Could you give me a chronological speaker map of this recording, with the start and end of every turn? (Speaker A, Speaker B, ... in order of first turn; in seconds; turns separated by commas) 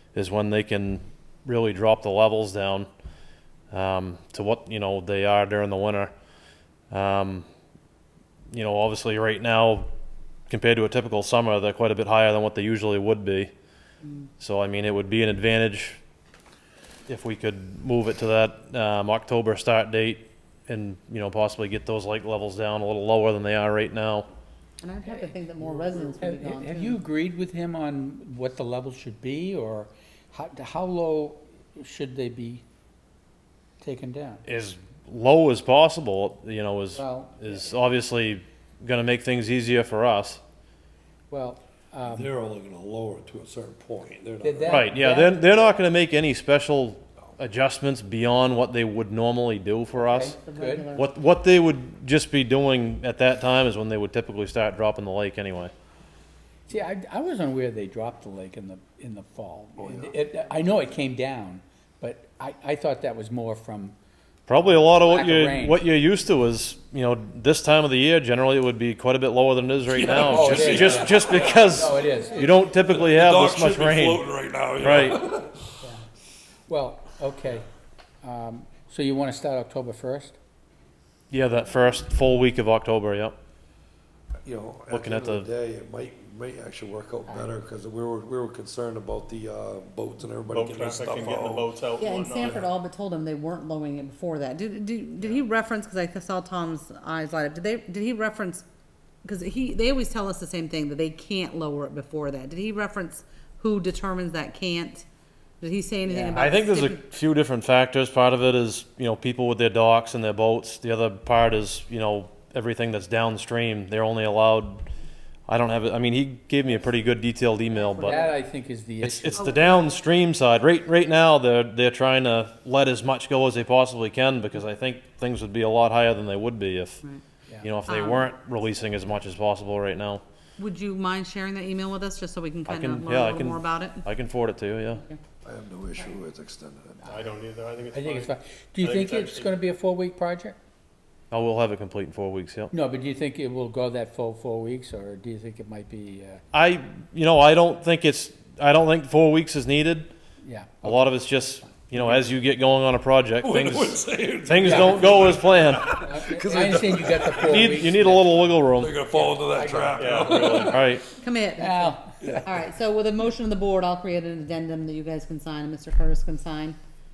Speaker A: 0.1-2.9, Speaker A: 3.7-6.1, Speaker A: 6.9-7.5, Speaker A: 8.5-9.9, Speaker A: 10.5-13.5, Speaker B: 14.0-14.3, Speaker A: 14.4-16.0, Speaker A: 17.1-24.3, Speaker B: 24.8-27.0, Speaker C: 25.2-32.6, Speaker C: 33.8-34.4, Speaker A: 34.5-40.4, Speaker C: 36.9-37.6, Speaker C: 41.3-42.3, Speaker D: 42.1-44.9, Speaker C: 44.4-45.4, Speaker A: 44.7-50.4, Speaker B: 50.0-51.1, Speaker C: 50.5-50.9, Speaker A: 50.9-55.7, Speaker C: 56.7-64.0, Speaker D: 59.8-60.2, Speaker A: 64.5-74.2, Speaker C: 64.9-65.9, Speaker D: 69.9-71.8, Speaker C: 70.2-72.6, Speaker D: 72.9-75.8, Speaker A: 74.8-75.2, Speaker C: 76.7-77.7, Speaker C: 78.2-80.4, Speaker A: 81.3-83.4, Speaker D: 84.4-91.7, Speaker A: 84.9-85.5, Speaker E: 90.5-92.7, Speaker B: 92.0-98.6, Speaker B: 99.2-105.1, Speaker B: 105.6-107.0, Speaker C: 106.1-106.5, Speaker A: 106.3-114.9, Speaker A: 115.5-118.2, Speaker B: 117.7-118.4, Speaker C: 118.0-119.5, Speaker A: 119.0-127.0, Speaker B: 119.4-119.9, Speaker A: 127.6-130.2, Speaker B: 127.9-128.3, Speaker B: 130.6-134.0, Speaker A: 132.7-135.0, Speaker D: 135.4-137.0, Speaker E: 137.1-139.6, Speaker C: 137.1-137.3, Speaker C: 137.9-140.6, Speaker A: 141.3-142.7, Speaker C: 142.7-146.4, Speaker A: 146.5-150.1, Speaker C: 150.4-152.3, Speaker A: 150.8-156.0, Speaker D: 153.4-157.9, Speaker C: 154.6-155.0, Speaker C: 155.9-158.5, Speaker A: 157.3-159.0, Speaker D: 158.8-160.9, Speaker C: 159.2-160.4, Speaker E: 159.9-160.8, Speaker A: 160.6-161.1, Speaker B: 161.1-166.8, Speaker C: 161.6-162.4, Speaker D: 162.2-162.6